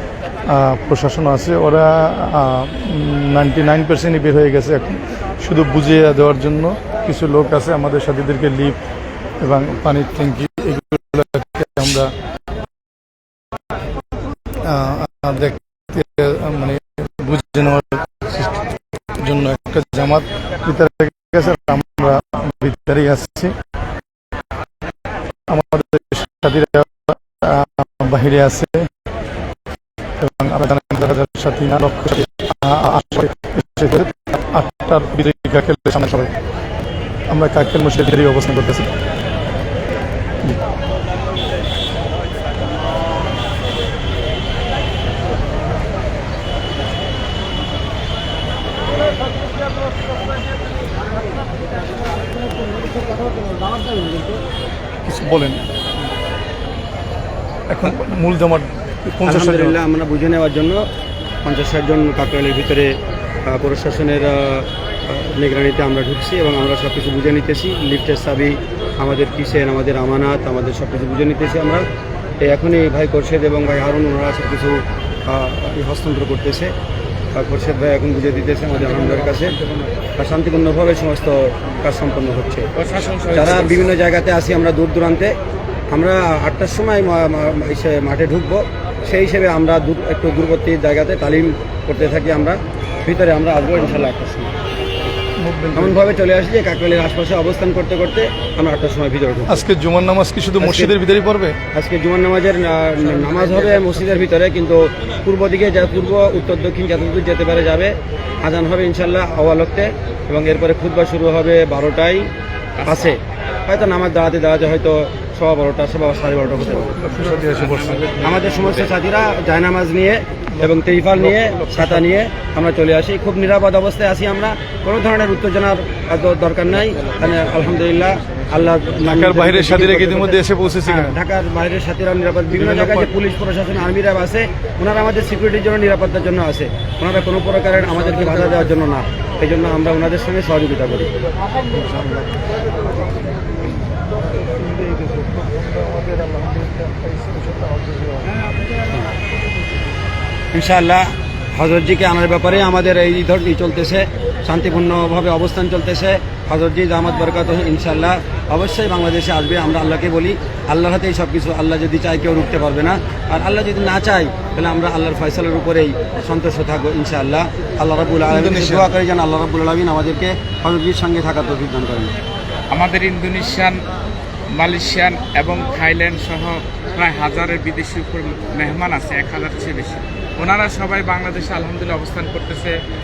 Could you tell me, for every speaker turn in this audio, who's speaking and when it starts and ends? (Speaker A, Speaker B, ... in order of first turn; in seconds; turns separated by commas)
Speaker A: 0.5-8.8, Speaker A: 9.4-12.1, Speaker A: 14.6-23.5, Speaker A: 25.5-28.9, Speaker A: 30.2-36.3, Speaker A: 37.3-38.9, Speaker A: 55.0-55.6, Speaker A: 57.7-59.8, Speaker B: 59.2-60.9, Speaker B: 61.4-62.9, Speaker B: 63.5-71.8, Speaker B: 72.4-76.7, Speaker B: 77.3-79.6, Speaker C: 79.4-79.9, Speaker B: 80.2-82.7, Speaker C: 82.8-83.9, Speaker B: 83.3-85.3, Speaker B: 85.9-94.5, Speaker A: 95.4-96.0, Speaker B: 95.7-99.6, Speaker A: 99.5-101.6, Speaker B: 100.6-101.0, Speaker B: 101.7-107.9, Speaker B: 108.4-112.3, Speaker C: 112.8-113.1, Speaker B: 112.8-117.0, Speaker A: 117.0-118.0, Speaker C: 117.5-118.9, Speaker B: 118.2-141.1, Speaker A: 120.6-122.0, Speaker A: 129.1-131.2, Speaker A: 132.7-133.0, Speaker B: 150.5-172.1, Speaker A: 168.3-168.9, Speaker C: 172.7-173.8, Speaker C: 174.5-182.8